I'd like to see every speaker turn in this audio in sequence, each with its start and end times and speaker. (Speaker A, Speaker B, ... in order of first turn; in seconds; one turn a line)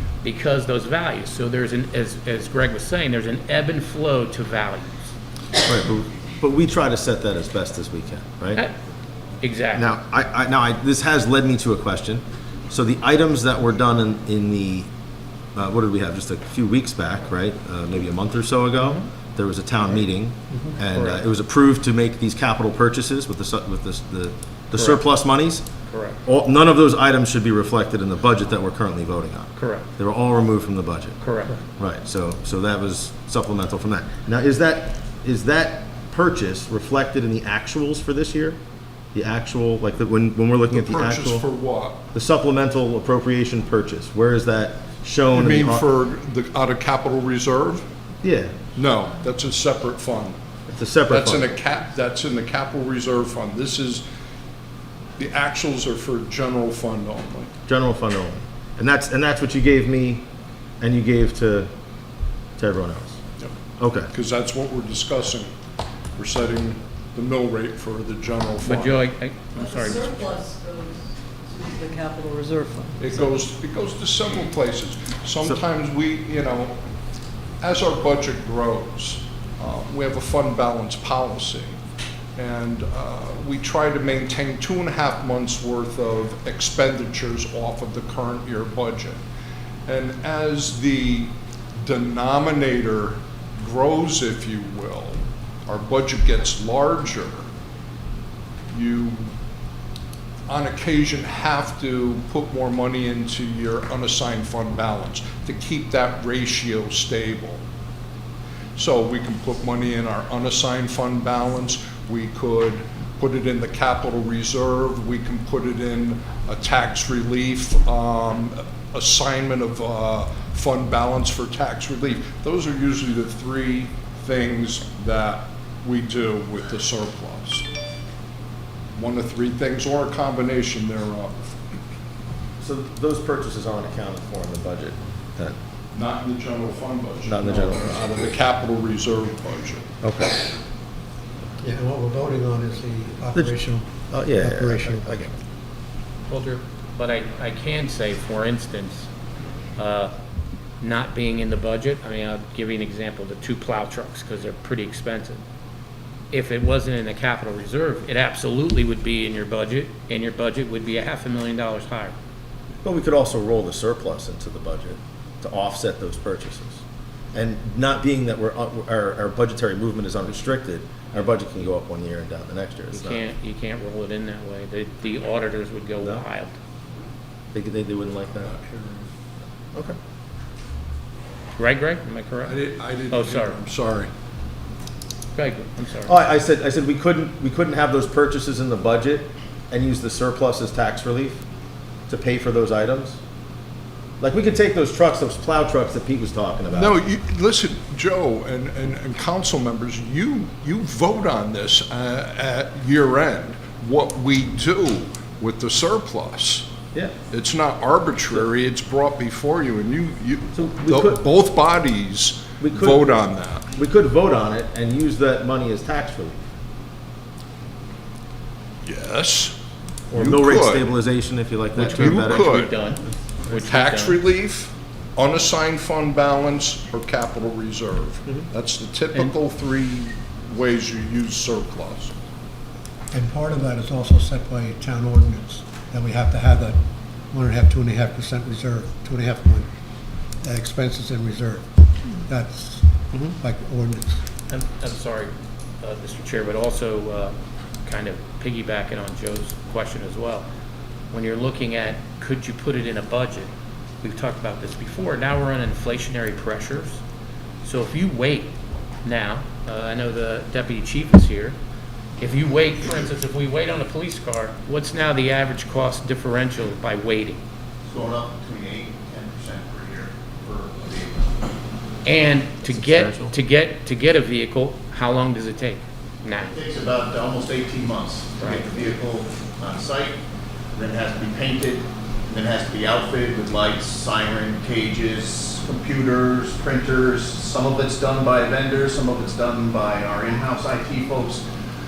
Speaker A: 0.2-5.0
Speaker B: 5.6-8.6
Speaker A: 9.4-10.0
Speaker B: 9.8-14.9
Speaker B: 15.5-25.6
Speaker A: 20.9-21.2
Speaker A: 24.7-25.0
Speaker A: 25.9-26.2
Speaker B: 26.2-31.2
Speaker A: 29.6-29.9
Speaker A: 31.2-31.6
Speaker B: 31.7-38.6
Speaker B: 39.1-41.4
Speaker C: 40.7-42.0
Speaker B: 42.1-45.8
Speaker C: 45.3-47.9
Speaker B: 48.2-48.5
Speaker C: 48.7-50.4
Speaker B: 50.7-51.5
Speaker C: 51.1-54.0
Speaker C: 55.2-57.5
Speaker B: 57.7-60.2
Speaker B: 60.8-61.7
Speaker B: 62.6-63.2
Speaker B: 63.8-64.1
Speaker C: 64.1-65.5
Speaker C: 66.2-69.0
Speaker A: 68.6-70.3
Speaker D: 69.5-73.3
Speaker C: 73.0-76.8
Speaker C: 77.6-81.8
Speaker C: 82.3-89.2
Speaker C: 89.8-97.5
Speaker C: 98.7-99.3
Speaker C: 100.5-107.6
Speaker C: 108.7-127.7
Speaker C: 128.9-131.8
Speaker B: 132.6-135.6
Speaker C: 135.9-139.9
Speaker B: 137.2-138.2
Speaker B: 140.0-140.4
Speaker E: 141.6-145.3
Speaker B: 144.1-145.3
Speaker A: 146.3-149.1
Speaker A: 149.8-150.1
Speaker A: 150.8-155.4
Speaker A: 156.3-162.1
Speaker B: 162.8-166.8
Speaker B: 167.3-173.2
Speaker A: 172.9-176.5
Speaker B: 177.5-178.5
Speaker C: 178.4-179.1
Speaker A: 181.6-182.6
Speaker C: 182.4-184.1
Speaker A: 183.1-183.6
Speaker A: 185.3-186.1
Speaker B: 186.1-191.4
Speaker B: 192.1-193.2
Speaker B: 194.2-197.0
Speaker C: 196.7-206.7
Speaker C: 207.3-213.7
Speaker B: 210.5-211.2
Speaker B: 212.6-213.2
Speaker B: 213.7-216.4
Speaker C: 218.8-219.6
Speaker C: 220.1-220.9
Speaker B: 220.1-222.7
Speaker C: 221.8-222.7
Speaker A: 221.8-224.2
Speaker C: 223.6-232.1
Speaker E: 233.1-236.8
Speaker E: 237.3-239.7
Speaker E: 240.4-244.2
Speaker A: 244.5-250.4
Speaker A: 251.1-253.5
Speaker A: 254.0-257.0
Speaker A: 257.6-258.5
Speaker A: 259.0-261.6
Speaker A: 262.2-267.4
Speaker F: 267.9-271.3
Speaker A: 272.0-276.5
Speaker B: 272.7-273.3
Speaker F: 276.4-280.2
Speaker A: 278.4-278.7
Speaker F: 280.7-291.4